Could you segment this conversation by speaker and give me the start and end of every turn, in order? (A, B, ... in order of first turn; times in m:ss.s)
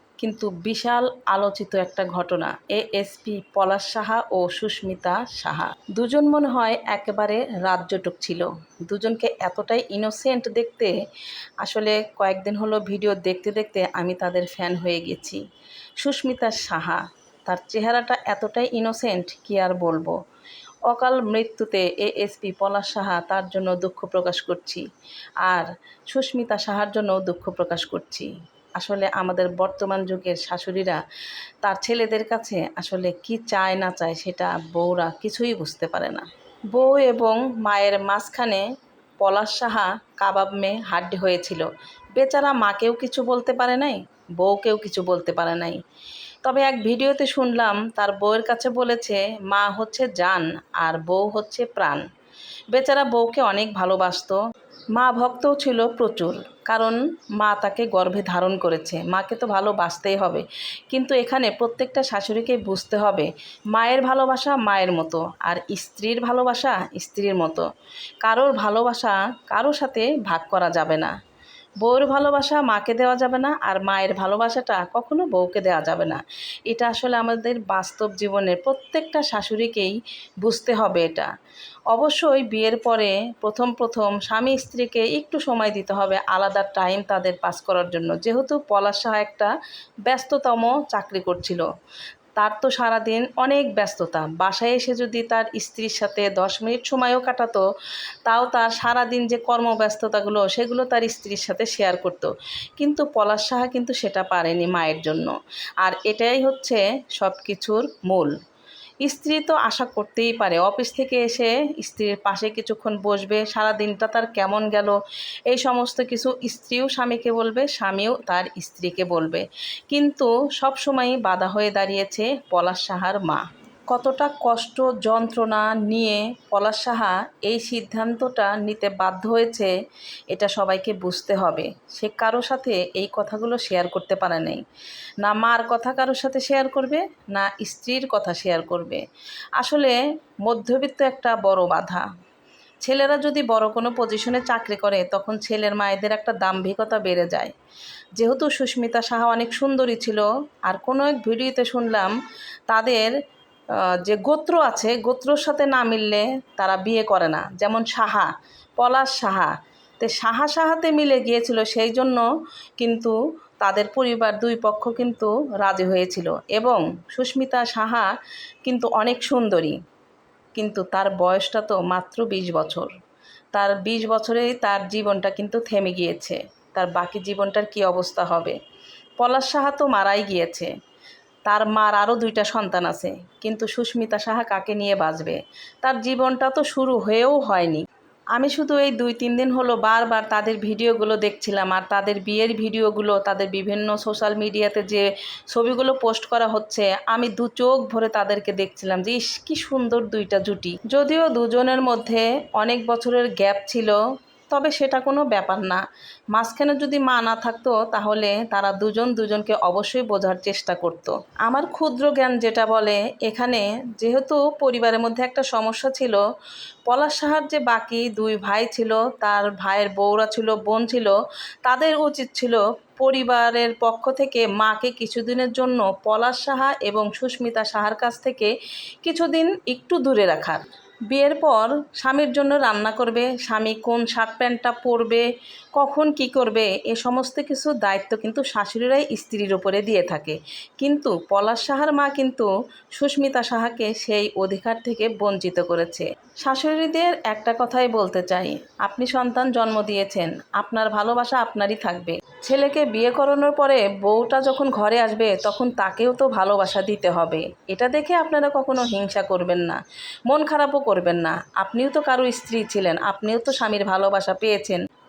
0:00.2-0:10.9 A
0:11.6-0:15.4 A
0:16.0-0:20.2 A
0:20.9-0:24.8 A
0:25.4-0:31.0 A
0:31.6-0:38.6 A
0:39.2-0:45.8 A
0:46.4-0:52.0 A
0:52.7-0:54.4 A
0:55.0-1:07.6 A
1:08.2-1:11.1 A
1:11.8-1:21.3 A
1:21.9-1:29.5 A
1:30.0-1:31.7 A
1:32.4-1:37.6 A
1:38.2-1:48.3 A
1:49.0-1:55.0 A
1:55.5-2:09.7 A
2:10.3-2:14.6 A
2:15.2-2:19.0 A
2:19.6-2:22.0 A
2:22.8-2:27.5 A
2:28.2-2:32.1 A
2:32.7-2:33.2 A
2:34.0-2:42.2 A
2:42.8-2:48.1 A
2:48.6-2:49.8 A
2:50.6-2:52.9 A
2:53.5-2:58.6 A
2:59.2-3:00.7 A
3:01.5-3:24.0 A
3:24.5-3:36.2 A
3:36.9-3:48.5 A
3:49.0-4:24.8 A